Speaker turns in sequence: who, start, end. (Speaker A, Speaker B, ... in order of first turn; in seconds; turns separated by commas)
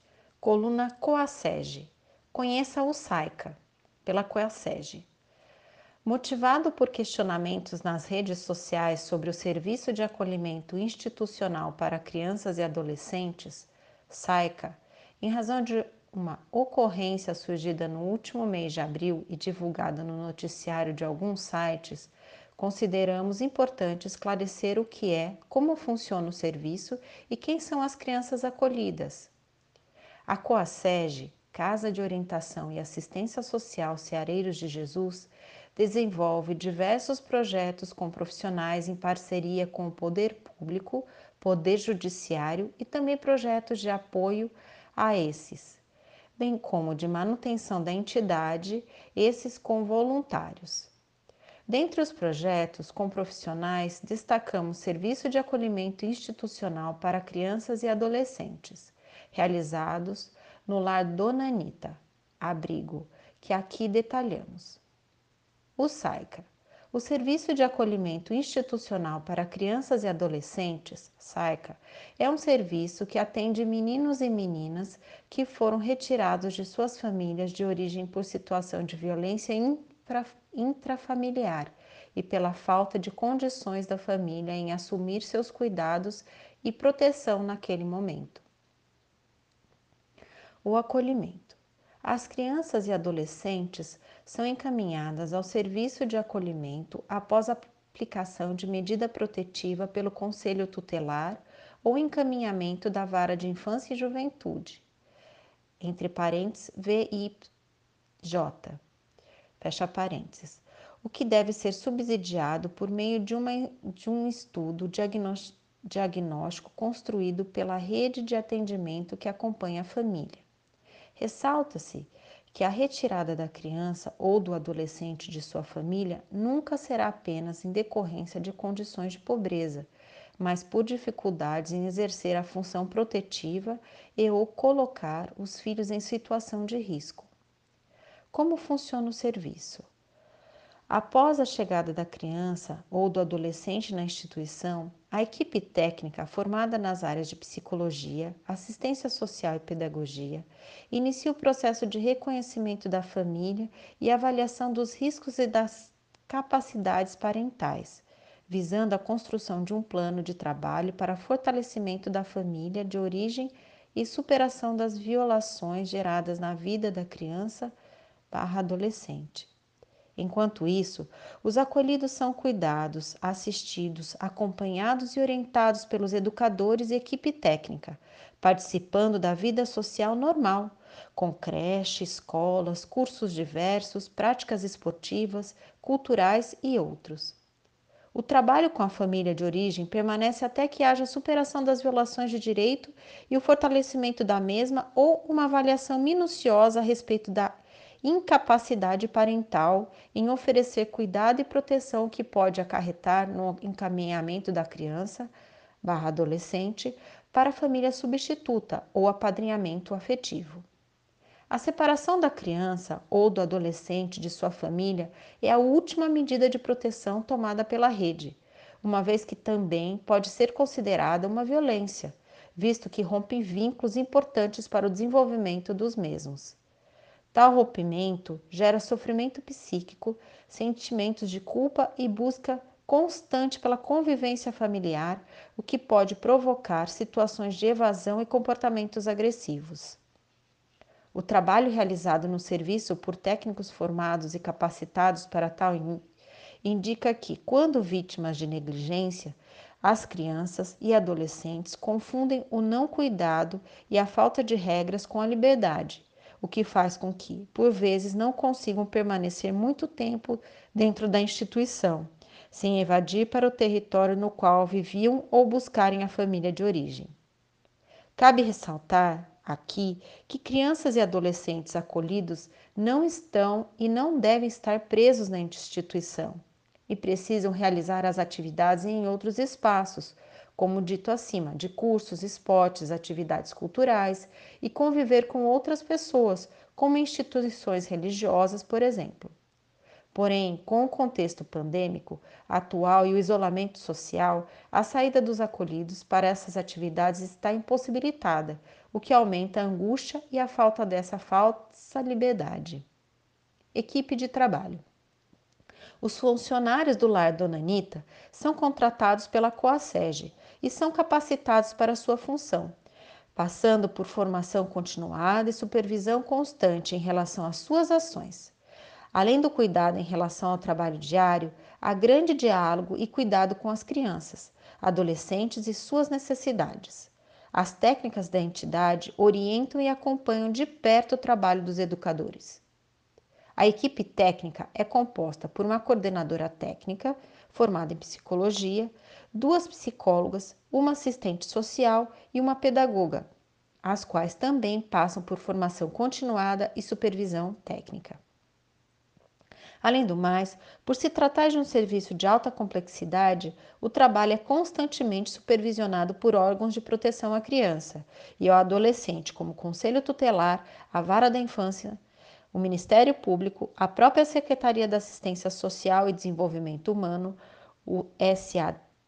Speaker A: 0.4-5.1, Speaker A: 6.0-29.3, Speaker A: 30.3-45.8, Speaker A: 46.4-50.9, Speaker A: 51.7-64.8, Speaker A: 65.8-88.4, Speaker A: 90.6-104.8, Speaker A: 105.8-107.5, Speaker A: 108.2-108.8, Speaker A: 109.6-120.5, Speaker A: 121.2-137.3, Speaker A: 138.3-139.9, Speaker A: 140.9-167.7, Speaker A: 168.3-169.5, Speaker A: 170.2-187.4, Speaker A: 188.1-205.3, Speaker A: 205.8-210.6, Speaker A: 211.5-226.6, Speaker A: 227.3-240.0, Speaker A: 241.1-246.0, Speaker A: 246.6-267.1, Speaker A: 268.1-289.3, Speaker A: 290.1-302.9, Speaker A: 303.7-304.8, Speaker A: 306.0-312.8, Speaker A: 313.3-318.5, Speaker A: 319.1-332.6, Speaker A: 333.6-343.3, Speaker A: 343.8-348.2, Speaker A: 349.8-362.0, Speaker A: 362.5-368.8